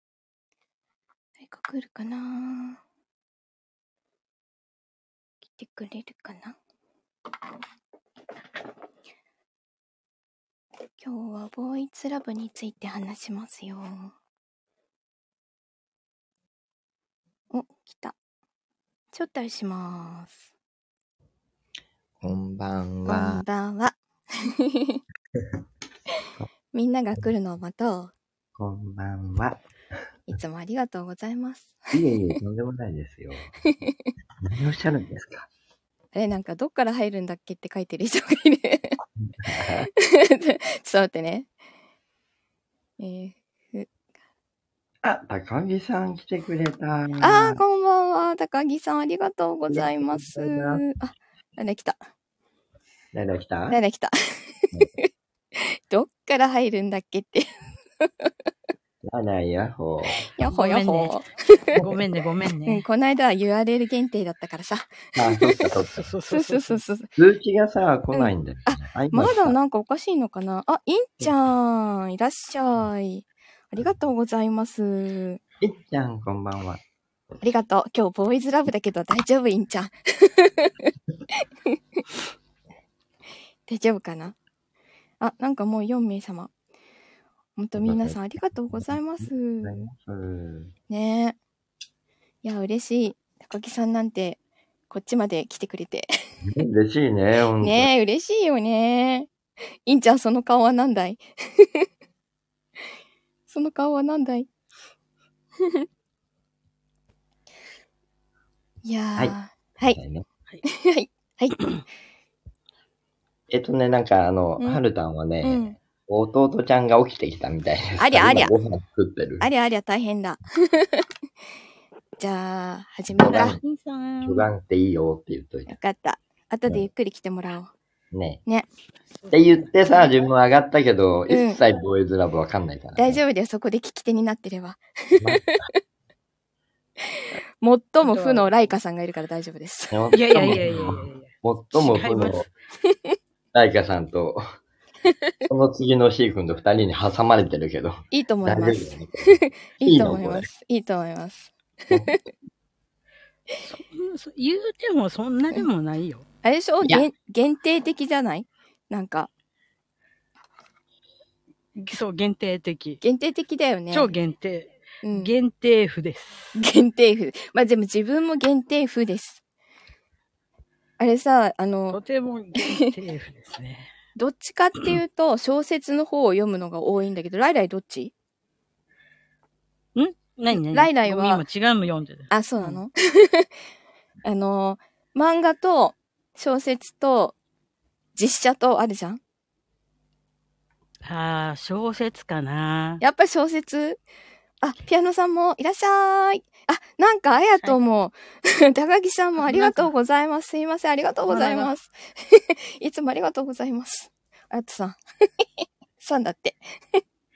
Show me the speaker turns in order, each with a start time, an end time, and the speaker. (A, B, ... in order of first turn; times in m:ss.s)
0:01.4-0:02.8 A
0:05.5-0:06.6 A
0:11.0-0:14.1 A
0:17.5-0:18.1 A
0:19.1-0:20.4 A
0:22.2-0:23.4 B
0:23.0-0:25.0 A
0:26.7-0:28.1 A
0:28.6-0:29.6 B
0:30.3-0:31.9 A
0:31.9-0:33.6 B
0:33.6-0:34.1 A
0:34.4-0:35.5 B
0:36.1-0:39.0 A
0:39.4-0:39.9 B
0:39.9-0:41.5 A
0:43.0-0:43.9 A
0:45.0-0:47.6 B
0:47.2-0:52.0 A
0:49.7-0:50.9 B
0:53.1-0:53.8 B
0:53.7-0:57.5 A
0:59.0-1:00.2 B
1:00.3-1:01.8 A
1:00.4-1:01.2 C
1:01.7-1:02.0 B
1:01.8-1:02.8 C
1:02.6-1:05.6 A
1:05.2-1:06.0 B
1:05.8-1:06.8 C
1:06.3-1:07.1 A
1:07.2-1:09.6 B
1:08.1-1:15.4 A
1:15.6-1:16.8 B
1:17.4-1:20.9 A
1:23.7-1:24.4 A
1:25.2-1:26.5 A
1:27.6-1:29.7 A
1:27.8-1:30.7 B
1:30.9-1:31.4 A
1:32.4-1:34.4 A
1:34.9-1:36.1 A
1:36.4-1:37.9 B
1:37.6-1:39.3 A
1:39.8-1:41.8 A
1:43.5-1:44.5 A
1:48.8-1:50.0 A
1:49.9-1:50.2 B
1:50.6-1:51.6 A
1:53.5-1:59.5 B
1:55.4-1:55.7 A
1:58.0-1:58.5 A
1:59.4-2:01.0 A
2:02.2-2:03.6 A
2:03.1-2:03.6 B
2:03.3-2:04.5 C
2:04.2-2:05.7 B
2:05.7-2:07.7 A
2:08.1-2:08.4 B
2:09.2-2:09.6 C
2:09.3-2:13.2 B
2:11.3-2:11.6 A
2:13.0-2:15.5 A
2:15.2-2:15.7 B
2:17.2-2:20.1 A
2:18.0-2:18.6 C
2:19.9-2:22.5 B
2:20.1-2:22.4 C
2:23.5-2:24.4 B
2:25.5-2:30.5 B
2:28.1-2:32.2 A
2:31.9-2:32.2 B
2:33.6-2:36.2 C
2:36.4-2:39.3 A
2:41.7-2:43.0 C
2:43.0-2:44.1 A
2:43.9-2:46.6 C
2:45.0-2:45.3 A
2:46.5-2:49.4 A
2:51.0-2:52.0 A
2:51.9-2:53.9 C
2:54.2-2:58.1 A
3:00.0-3:02.8 C
3:00.5-3:01.4 A
3:02.3-3:03.5 A
3:04.2-3:07.3 A
3:08.2-3:09.2 A
3:11.0-3:13.0 C
3:13.0-3:14.0 A
3:14.6-3:25.4 A
3:19.4-3:19.9 C
3:21.2-3:21.7 C
3:26.0-3:26.6 A